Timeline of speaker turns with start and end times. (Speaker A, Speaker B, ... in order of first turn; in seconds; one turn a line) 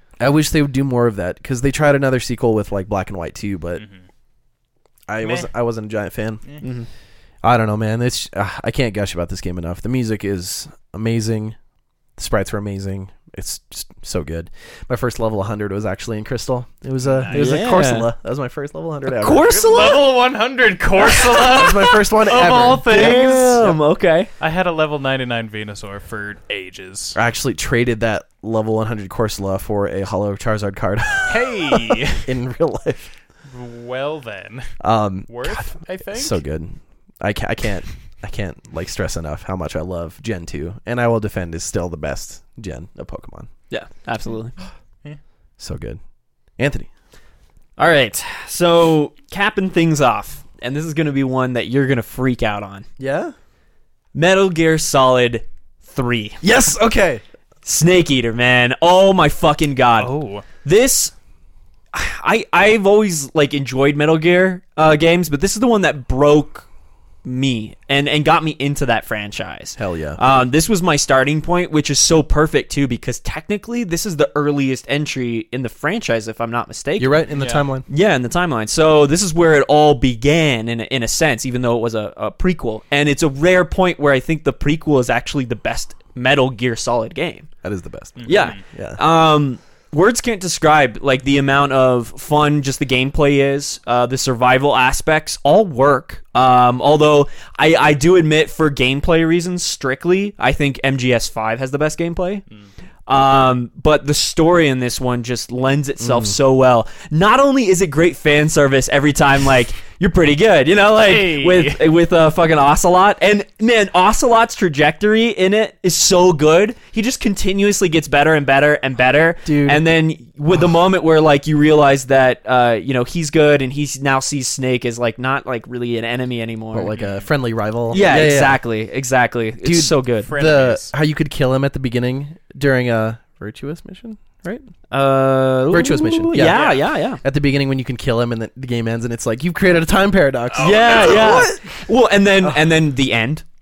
Speaker A: 0.2-3.8
Speaker A: 5.1-6.4
Speaker B: 5.2-5.5
Speaker C: 6.6-6.9
Speaker A: 7.4-11.6
Speaker A: 12.2-19.5
Speaker B: 17.0-17.5
Speaker C: 17.3-18.1
Speaker C: 19.1-20.1
Speaker B: 19.5-23.8
Speaker A: 21.4-23.2
Speaker C: 22.9-24.3
Speaker B: 24.4-27.2
Speaker A: 27.1-33.1
Speaker B: 31.3-32.3
Speaker B: 33.5-34.7
Speaker A: 34.8-43.5
Speaker B: 35.3-36.4
Speaker C: 43.7-44.6
Speaker A: 45.6-46.0
Speaker A: 46.6-46.9
Speaker C: 47.8-52.9
Speaker A: 53.0-53.3
Speaker C: 54.1-56.4
Speaker A: 56.4-57.2
Speaker C: 57.6-61.1
Speaker B: 60.0-60.5
Speaker C: 61.9-66.7
Speaker C: 67.2-77.2
Speaker A: 69.8-70.2
Speaker A: 77.0-77.8
Speaker B: 77.3-77.7
Speaker C: 77.9-87.5
Speaker A: 87.6-89.0
Speaker B: 88.2-88.6
Speaker C: 88.3-102.4
Speaker C: 103.1-126.9
Speaker A: 106.0-106.3
Speaker B: 111.0-111.9
Speaker A: 119.5-119.8
Speaker A: 126.7-128.6
Speaker B: 127.0-127.3
Speaker C: 127.9-130.3
Speaker A: 129.6-134.6
Speaker B: 130.2-130.9
Speaker C: 134.9-137.2
Speaker A: 135.7-136.7
Speaker B: 136.4-136.8
Speaker A: 137.2-141.7
Speaker B: 140.5-141.5
Speaker C: 140.6-143.4